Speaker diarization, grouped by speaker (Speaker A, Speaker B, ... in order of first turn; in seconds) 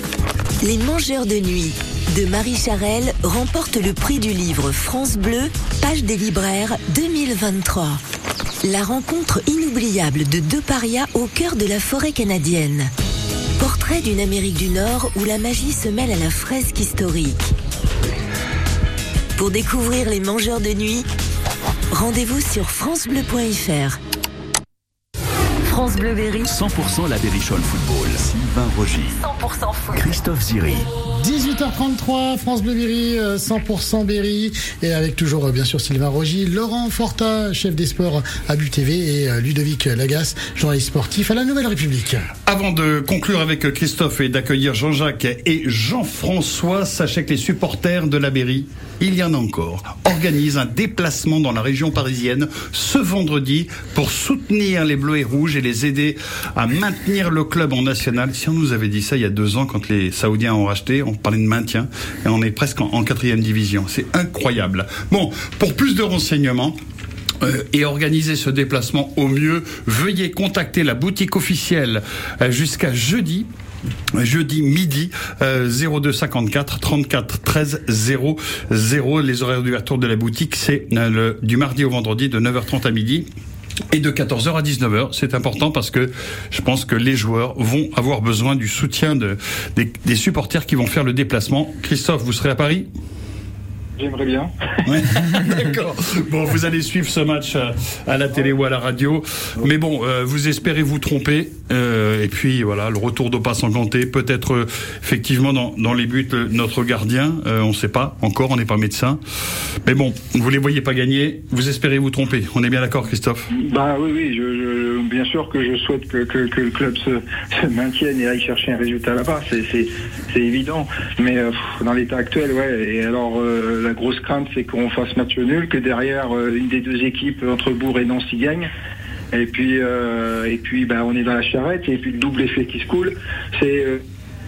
Speaker A: 0.6-8.0, 8.6-12.9, 13.6-17.5, 19.4-21.1, 21.9-24.0, 25.6-26.5, 29.2-30.1
Speaker B: 26.4-29.2, 29.9-30.9
Speaker C: 31.1-42.3
Speaker D: 42.5-66.8, 67.4-73.5, 74.2-83.3, 83.9-92.9, 94.9-109.2, 109.8-113.5
Speaker E: 94.0-94.5, 113.5-128.7, 129.3-134.0